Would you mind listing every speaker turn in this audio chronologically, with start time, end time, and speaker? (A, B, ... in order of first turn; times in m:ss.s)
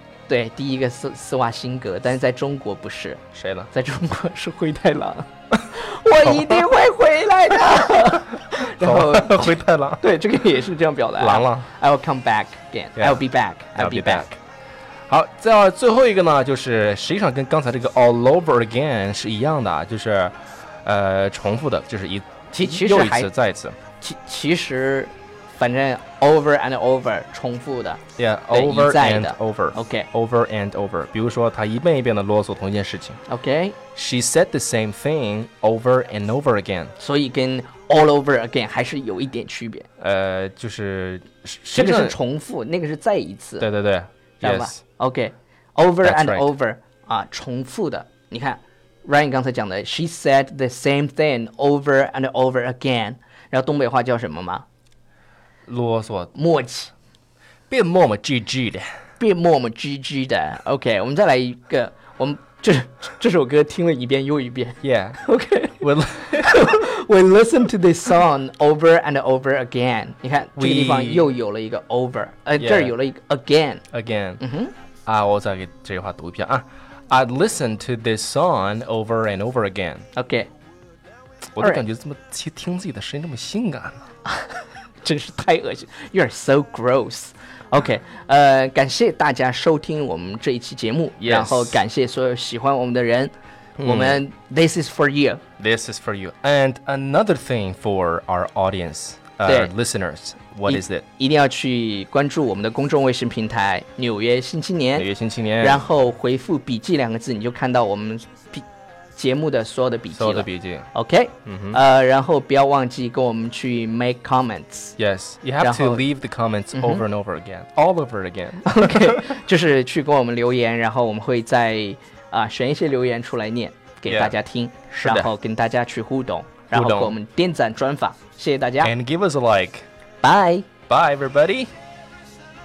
0:00.3-0:14.2 A
0:03.3-0:03.7 B
0:06.2-0:06.6 B
0:08.8-0:10.1 B
0:11.2-0:11.7 B
0:13.0-0:13.2 B
0:13.8-0:14.4 B
0:15.1-0:23.8 B
0:22.6-0:23.3 A
0:24.0-0:30.1 A
0:28.2-0:33.2 B
0:33.3-0:33.8 A
0:33.9-0:36.9 B
0:37.0-0:39.9 A
0:40.0-0:42.2 B
0:41.7-0:43.7 A
0:43.6-0:44.8 B
0:44.4-0:54.6 A
0:46.0-0:46.5 B
0:55.7-0:56.3 B
0:56.3-0:56.9 A
0:57.7-0:58.9 B
0:59.2-1:13.8 A
1:04.8-1:05.2 B
1:05.8-1:06.8 B
1:10.6-1:11.3 B
1:12.6-1:12.9 B
1:13.9-1:14.4 B
1:14.4-1:14.7 A
1:15.0-1:20.0 B
1:20.2-1:20.5 A
1:21.5-1:24.0 B
1:24.3-1:35.4 A
1:31.2-1:31.8 B
1:33.8-1:34.2 B
1:35.6-1:41.0 B
1:39.4-1:39.7 A
1:40.7-1:45.1 A
1:45.0-1:45.9 B
1:45.6-1:55.0 A
1:50.1-1:50.9 B
1:51.4-1:51.8 B
1:55.0-1:59.2 B
1:55.6-1:56.0 A
1:56.7-1:57.0 A
1:58.6-2:08.9 A
2:04.0-2:04.4 B
2:04.9-2:05.3 B
2:06.7-2:07.1 B
2:08.8-2:09.9 B
2:10.2-2:10.7 A
2:10.9-2:11.7 B